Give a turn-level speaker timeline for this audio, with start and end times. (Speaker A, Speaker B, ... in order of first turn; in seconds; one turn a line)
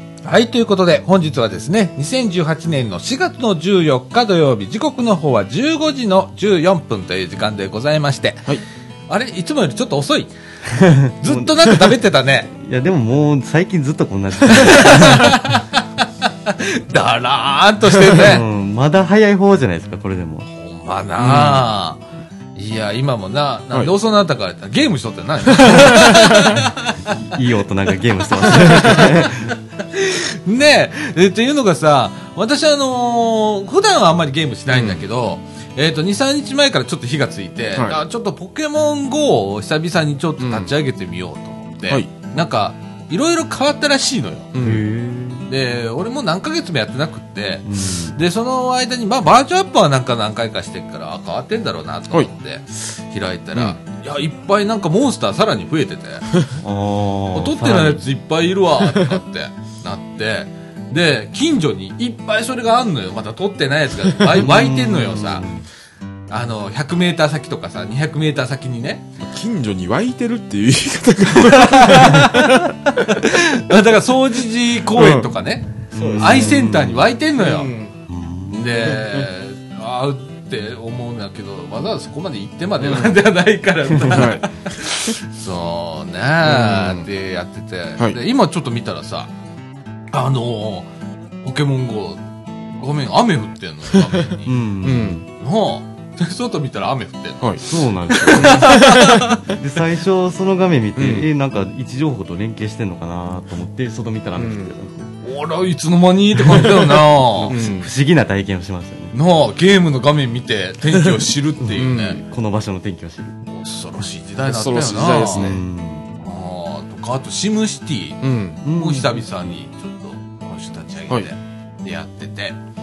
Speaker A: 0.2-10.3
Speaker B: 10.7-11.7
Speaker A: 11.0-12.5
Speaker B: 12.5-15.6
Speaker A: 14.5-18.4
Speaker B: 18.1-20.5
Speaker A: 20.5-22.0
Speaker B: 21.2-21.7
Speaker A: 22.6-27.2
Speaker C: 25.6-26.6
Speaker B: 27.2-29.5
Speaker A: 28.4-44.5
Speaker C: 28.6-29.0
Speaker C: 34.7-35.0
Speaker C: 40.4-40.7
Speaker C: 44.5-44.8
Speaker B: 44.6-45.5
Speaker A: 45.5-56.3
Speaker B: 47.6-48.2
Speaker B: 56.6-58.0
Speaker A: 57.4-65.5
Speaker C: 58.8-59.2
Speaker B: 64.3-65.7
Speaker A: 66.3-69.1
Speaker C: 69.2-73.2
Speaker A: 71.4-77.7
Speaker C: 74.9-75.3
Speaker C: 75.9-76.6
Speaker B: 75.9-77.1
Speaker C: 77.4-77.9
Speaker B: 78.1-78.7
Speaker A: 78.5-89.3
Speaker C: 78.8-79.3
Speaker C: 82.8-83.2
Speaker B: 83.9-84.2
Speaker C: 84.1-84.5
Speaker C: 86.4-87.1
Speaker A: 90.1-90.9
Speaker A: 91.4-94.6
Speaker B: 94.5-95.2
Speaker C: 94.8-95.2
Speaker A: 95.4-99.5
Speaker B: 97.6-105.1
Speaker C: 98.2-99.2
Speaker C: 101.0-101.3
Speaker C: 104.3-104.7
Speaker A: 105.2-107.6
Speaker B: 106.5-109.2
Speaker C: 107.5-107.9
Speaker A: 109.1-112.2
Speaker B: 111.1-113.4
Speaker C: 111.8-112.2
Speaker A: 113.5-115.5
Speaker C: 114.5-115.6
Speaker B: 114.5-116.1
Speaker A: 116.2-122.6
Speaker C: 118.2-118.6
Speaker B: 118.6-119.5